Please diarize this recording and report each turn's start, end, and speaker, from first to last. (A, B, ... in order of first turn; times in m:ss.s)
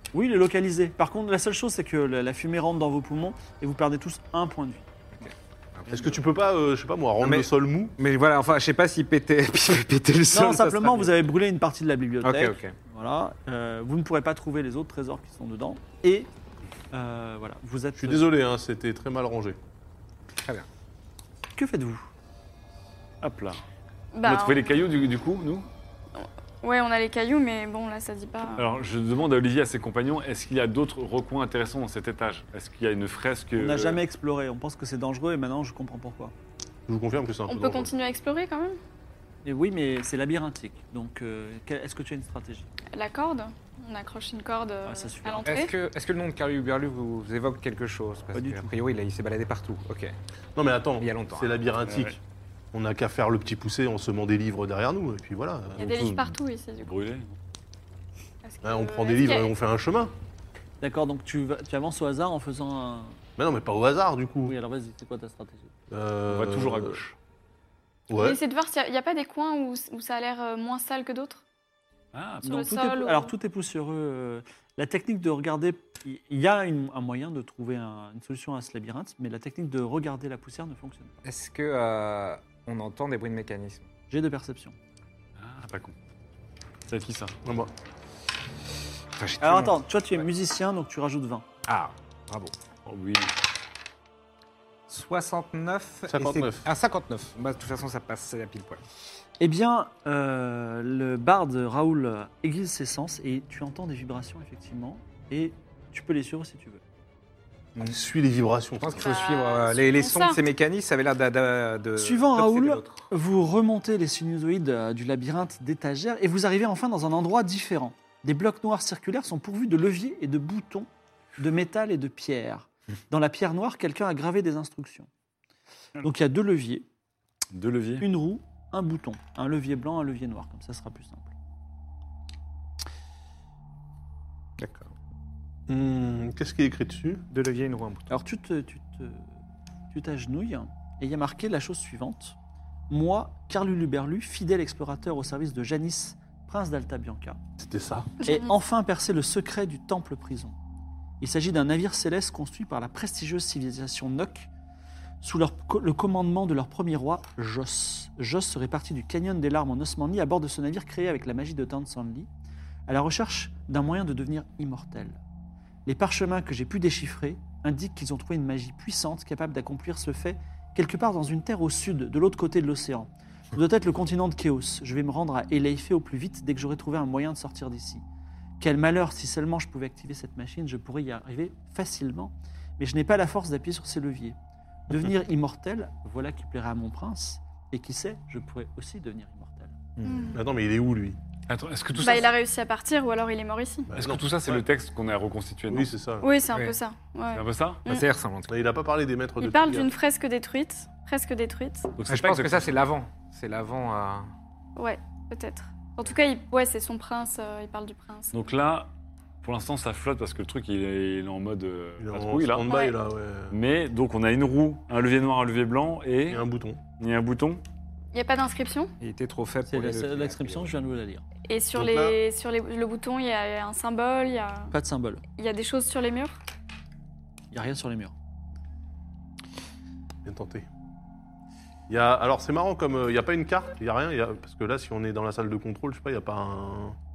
0:00.1-0:04.9 A
0:05.2-0:06.1 B
0:05.9-0:07.9 C
0:07.2-0:11.1 B
0:10.3-0:16.3 A
0:12.2-0:12.8 B
0:16.9-0:18.3 A
0:18.0-0:19.6 C
0:20.4-0:20.7 B
0:21.6-0:22.0 A
0:23.2-0:23.6 D
0:24.1-0:24.7 E
0:24.2-0:25.7 D
0:26.2-0:28.6 E
0:28.6-0:34.0 D
0:33.6-0:36.3 A
0:36.9-0:37.9 C
0:37.5-0:38.8 E
0:39.4-0:42.7 A
0:42.9-0:45.7 E
0:44.8-0:45.7 A
0:45.4-0:50.1 B
0:48.3-0:48.7 A
0:50.6-0:52.2 C
0:51.0-0:51.6 B
0:51.8-0:52.2 D
0:52.7-0:56.2 C
0:55.8-0:56.9 E
0:55.8-0:57.4 D
0:58.4-0:59.5 E
0:58.6-1:00.1 C
1:00.8-1:03.2 A
1:03.4-1:04.5 C
1:04.4-1:05.7 A
1:05.9-1:07.0 C
1:06.3-1:07.1 D
1:08.1-1:08.4 C
1:08.1-1:11.4 E
1:12.1-1:12.6 D
1:12.4-1:21.1 A
1:12.4-1:13.3 E
1:21.2-1:23.9 B
1:24.1-1:24.8 A
1:25.4-1:25.9 D
1:26.9-1:27.3 D
1:27.4-1:27.7 C
1:29.2-1:30.2 B
1:29.4-1:31.4 A
1:31.6-1:32.5 B
1:32.8-1:33.3 D
1:34.9-1:38.8 B
1:36.1-1:36.7 C
1:39.4-1:46.8 A
1:47.8-1:49.2 C
1:48.8-1:53.1 B
1:49.0-1:50.4 E
1:52.0-2:05.1 A
2:06.0-2:06.8 A
2:07.5-2:08.0 D
2:08.0-2:11.3 A
2:14.6-2:14.9 B
2:15.7-2:17.2 C
2:17.3-2:18.2 B
2:18.1-2:19.3 A
2:19.9-2:22.3 A
2:22.9-2:27.4 A
2:27.6-2:28.2 C
2:28.2-2:30.5 A
2:31.2-2:34.5 A
2:35.2-2:42.3 A
2:42.9-2:45.2 A
2:45.8-2:58.0 A
2:58.6-3:04.4 A
3:04.9-3:09.8 A
3:10.0-3:10.4 B
3:10.0-3:10.4 E
3:10.3-3:11.2 C
3:11.5-3:12.3 D
3:12.0-3:13.9 E
3:13.9-3:14.6 C
3:13.9-3:15.9 D
3:15.7-3:16.3 C
3:16.2-3:18.0 E
3:17.3-3:17.8 D
3:17.8-3:18.7 B
3:18.5-3:19.9 C
3:19.4-3:21.9 E
3:22.0-3:22.7 D
3:22.1-3:24.3 B
3:24.8-3:28.3 E
3:28.3-3:28.9 D
3:29.4-3:32.8 D
3:32.0-3:33.5 C
3:32.6-3:33.0 E
3:33.5-3:36.4 D
3:36.3-3:36.8 C
3:37.0-3:37.6 D
3:38.1-3:38.9 E
3:39.0-3:40.7 B
3:39.7-3:41.2 A
3:41.4-3:44.7 E
3:41.7-3:42.2 C
3:44.7-3:45.2 A
3:45.3-3:46.3 E
3:47.5-3:48.1 A
3:50.2-3:50.7 C
3:51.9-3:57.0 C